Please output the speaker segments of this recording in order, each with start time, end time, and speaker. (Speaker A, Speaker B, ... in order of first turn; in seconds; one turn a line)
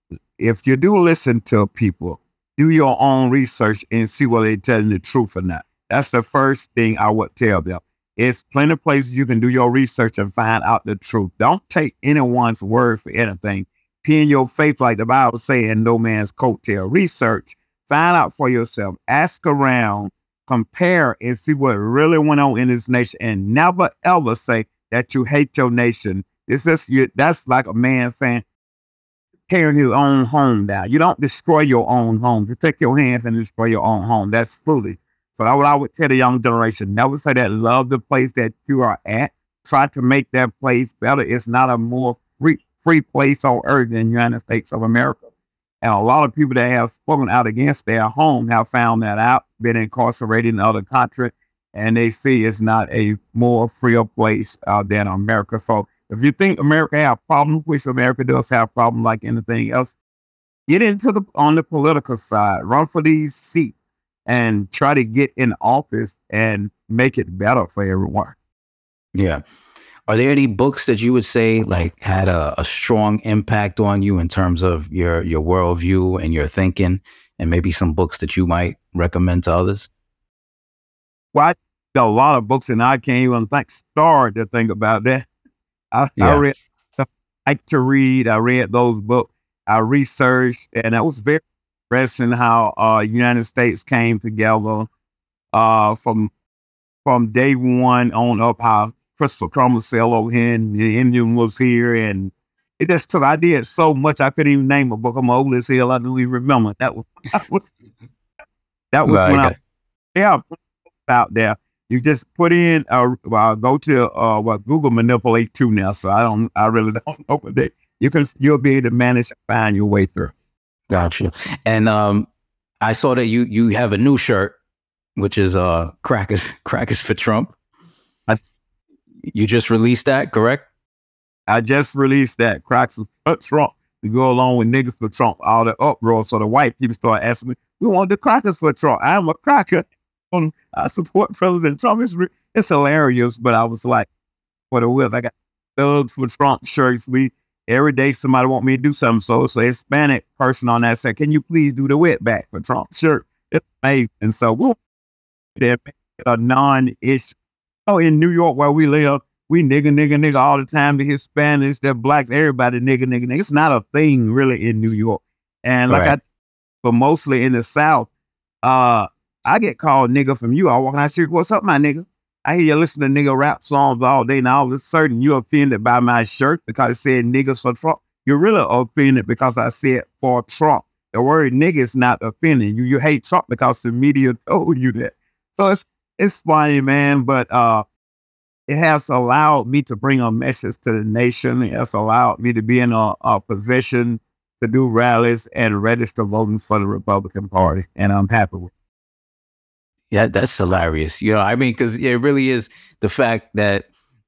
Speaker A: 0.4-28.4
Speaker A: 29.5-45.2
Speaker A: 45.8-59.9
Speaker A: 60.7-68.3
Speaker B: 69.1-69.4
Speaker B: 70.1-79.9
Speaker A: 81.3-85.2
Speaker A: 85.9-94.9
Speaker B: 86.2-86.4
Speaker A: 95.5-96.3
Speaker A: 97.0-107.7
Speaker A: 108.9-109.5
Speaker B: 109.0-109.5
Speaker A: 110.1-110.4
Speaker A: 111.0-120.3
Speaker B: 120.9-122.3
Speaker B: 122.8-124.6
Speaker B: 125.2-127.5
Speaker B: 129.3-130.7
Speaker A: 131.5-144.1
Speaker A: 144.7-154.8
Speaker A: 155.6-157.3
Speaker A: 157.8-166.2
Speaker B: 165.9-166.1
Speaker A: 166.8-168.1
Speaker A: 168.6-187.8
Speaker A: 188.7-198.7
Speaker B: 200.1-203.9